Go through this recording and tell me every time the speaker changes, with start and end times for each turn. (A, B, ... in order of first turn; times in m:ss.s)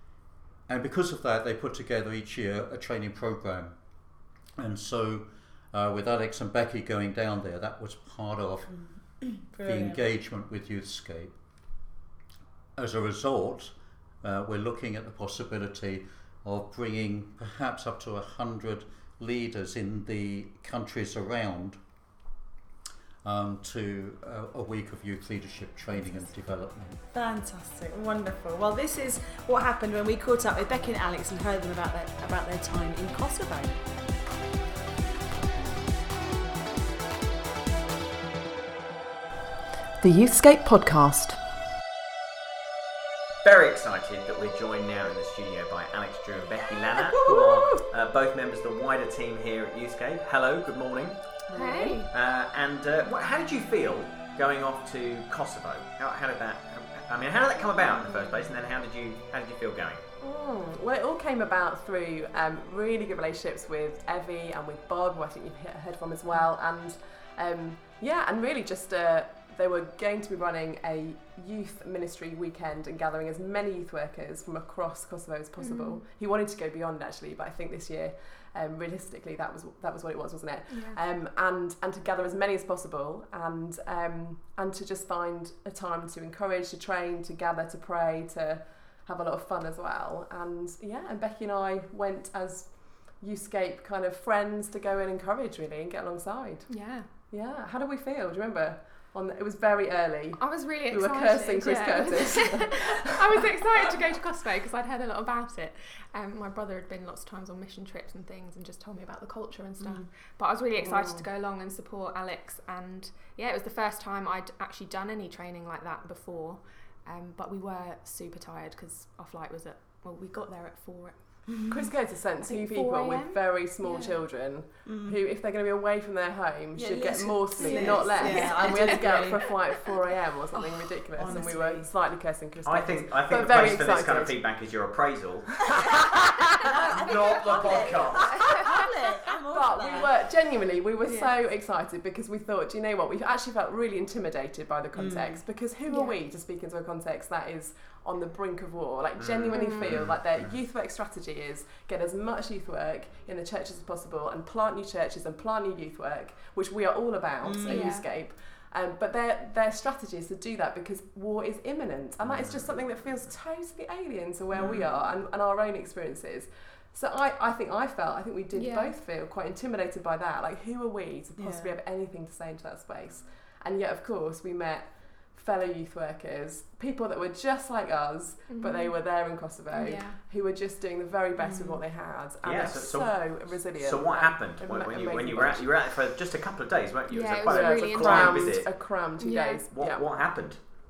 0:00.7-0:03.8 A
0:04.6-0:11.4 A
0:08.7-0:10.0 B
0:12.8-0:21.8 A
0:23.2-0:27.0 A
0:27.1-0:33.8 B
0:40.0-0:41.4 B
0:43.4-0:51.4 C
0:51.5-0:52.0 B
0:51.6-0:52.1 D
0:52.1-1:00.0 C
1:00.2-1:44.0 E
1:15.6-1:16.0 D
1:20.7-1:21.0 D
1:36.7-1:37.2 D
1:40.4-2:01.7 D
1:49.8-1:50.1 B
1:50.8-1:51.3 E
2:01.6-2:14.4 E
2:02.4-2:04.2 D
2:04.8-2:05.2 B
2:06.7-2:09.5 B
2:07.6-2:10.0 D
2:10.8-2:11.5 D
2:11.2-2:11.9 B
2:12.6-2:15.7 C
2:15.6-2:16.2 E
2:16.7-2:20.2 B
2:16.9-2:18.4 C
2:19.5-3:05.8 E
2:21.0-2:21.4 D
2:24.9-2:25.4 B
2:25.9-2:26.2 D
2:29.2-2:30.6 C
2:29.5-2:30.0 D
2:37.4-2:38.0 B
2:37.6-2:38.1 D
2:42.2-2:42.6 C
2:44.5-2:44.8 B
2:44.6-2:44.9 C
2:48.5-2:48.9 D
2:51.4-2:51.8 B
2:58.5-2:59.2 D
2:59.7-3:00.2 D
3:01.4-3:01.8 B
3:02.4-3:09.0 C
3:07.1-3:08.6 D
3:07.5-3:10.5 E
3:09.2-3:09.6 D
3:09.7-3:10.6 C